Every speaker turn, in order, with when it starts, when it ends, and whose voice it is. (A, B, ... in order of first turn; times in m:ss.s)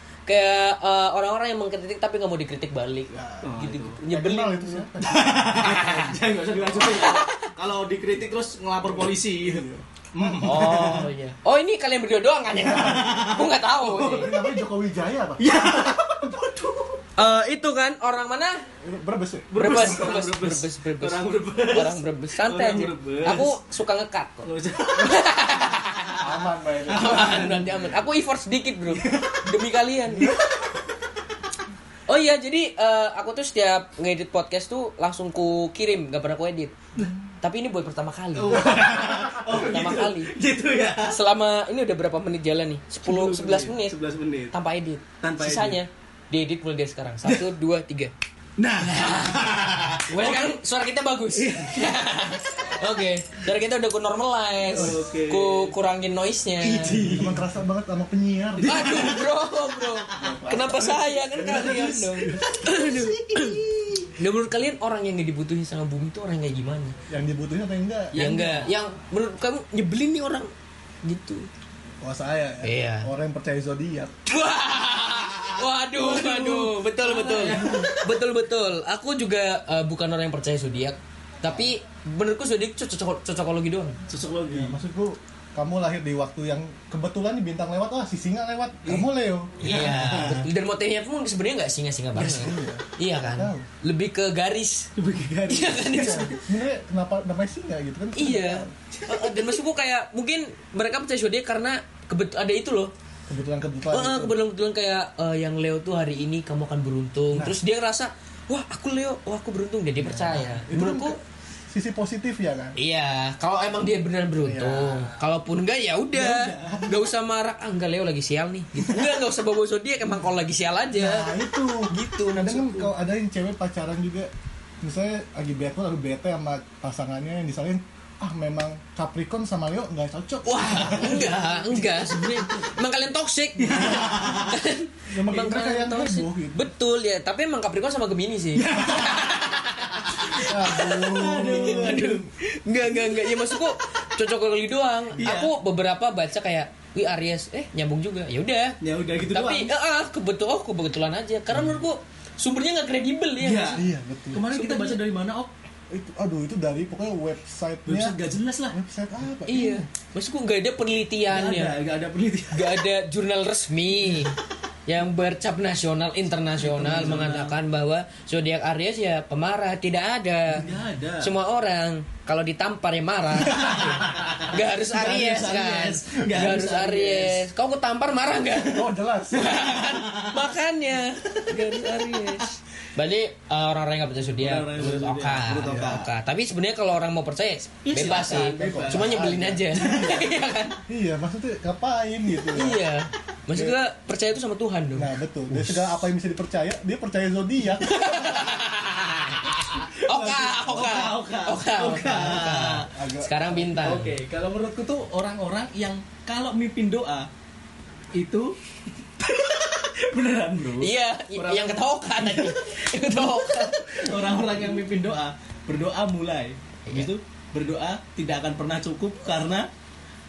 0:00.3-0:04.9 A
0:03.1-0:03.5 B
0:03.4-0:04.0 C
0:04.0-0:05.8 B
0:05.0-0:11.1 C
0:05.6-0:06.2 A
0:06.8-0:07.5 A
0:08.9-0:11.0 B
0:10.4-0:14.3 A
0:12.6-0:13.1 B
0:12.6-0:14.5 C
0:13.9-0:15.5 B
0:15.4-0:17.0 C
0:17.2-0:18.7 A
0:18.8-0:19.5 B
0:19.5-0:23.6 C
0:19.6-0:26.2 A
0:24.4-0:25.3 C
0:26.1-0:27.9 C
0:26.2-0:27.6 B
0:26.9-0:30.4 A
0:28.9-0:29.5 C
0:32.1-0:36.7 A
0:37.4-0:40.3 A
0:38.4-0:41.2 C
0:41.0-0:44.0 A
0:43.0-0:44.5 C
0:44.5-0:48.1 A
0:45.2-0:45.8 C
0:48.6-0:50.6 C
0:50.1-0:57.0 A
0:51.3-0:52.0 C
0:54.7-0:55.8 C
0:54.7-0:55.0 B
0:56.6-0:57.5 C
0:57.0-0:59.2 B
0:58.6-1:04.1 C
0:58.6-1:07.0 A
1:00.1-1:01.0 B
1:07.1-1:08.2 B
1:08.1-1:10.5 A
1:08.2-1:08.7 C
1:11.0-1:11.5 A
1:12.0-1:14.2 B
1:12.6-1:13.1 A
1:14.3-1:24.0 A
1:15.5-1:17.9 C
1:17.4-1:17.9 B
1:24.1-1:24.8 C
1:24.5-1:30.5 B
1:29.6-1:34.9 A
1:32.1-1:33.7 B
1:35.0-1:36.5 C
1:35.5-1:36.3 A
1:35.9-1:38.8 B
1:38.2-1:42.9 A
1:39.0-1:39.6 C
1:43.3-1:44.4 B
1:43.9-1:51.2 A
1:47.3-1:47.6 B
1:50.0-1:52.8 B
1:52.8-2:02.9 A
1:54.4-1:55.2 B
1:56.1-1:57.1 C
1:58.8-1:59.2 B
2:00.9-2:04.3 B
2:04.8-2:11.5 B
2:10.4-2:33.8 A
2:13.6-2:14.6 C
2:13.7-2:14.4 B
2:15.1-2:16.7 B
2:18.5-2:19.7 C
2:20.2-2:23.4 C
2:20.4-2:22.1 B
2:25.2-2:25.5 C
2:28.8-2:29.7 C
2:33.4-2:35.5 C
2:33.7-2:34.5 B
2:34.5-2:35.0 A
2:35.9-2:38.2 B
2:37.9-2:38.8 C
2:38.7-2:39.9 B
2:39.5-2:41.8 A
2:41.3-2:42.8 C
2:42.5-2:50.7 A
2:46.6-2:47.6 C
2:46.9-2:47.2 B
2:50.5-2:51.3 C
2:51.2-3:10.8 A
2:53.4-2:57.4 C
2:58.6-2:59.8 B
2:59.7-3:00.6 C
3:04.4-3:06.1 C
3:05.7-3:06.0 B
3:07.8-3:09.1 C
3:08.2-3:10.3 B
3:09.7-3:10.3 C
3:10.9-3:12.8 B
3:12.5-3:16.0 A
3:15.0-3:18.0 B
3:17.8-3:24.2 A
3:19.8-3:22.9 C
3:22.9-3:23.9 B
3:23.8-3:27.3 C
3:28.1-3:28.6 C
3:29.2-3:39.7 C
3:30.8-3:34.2 A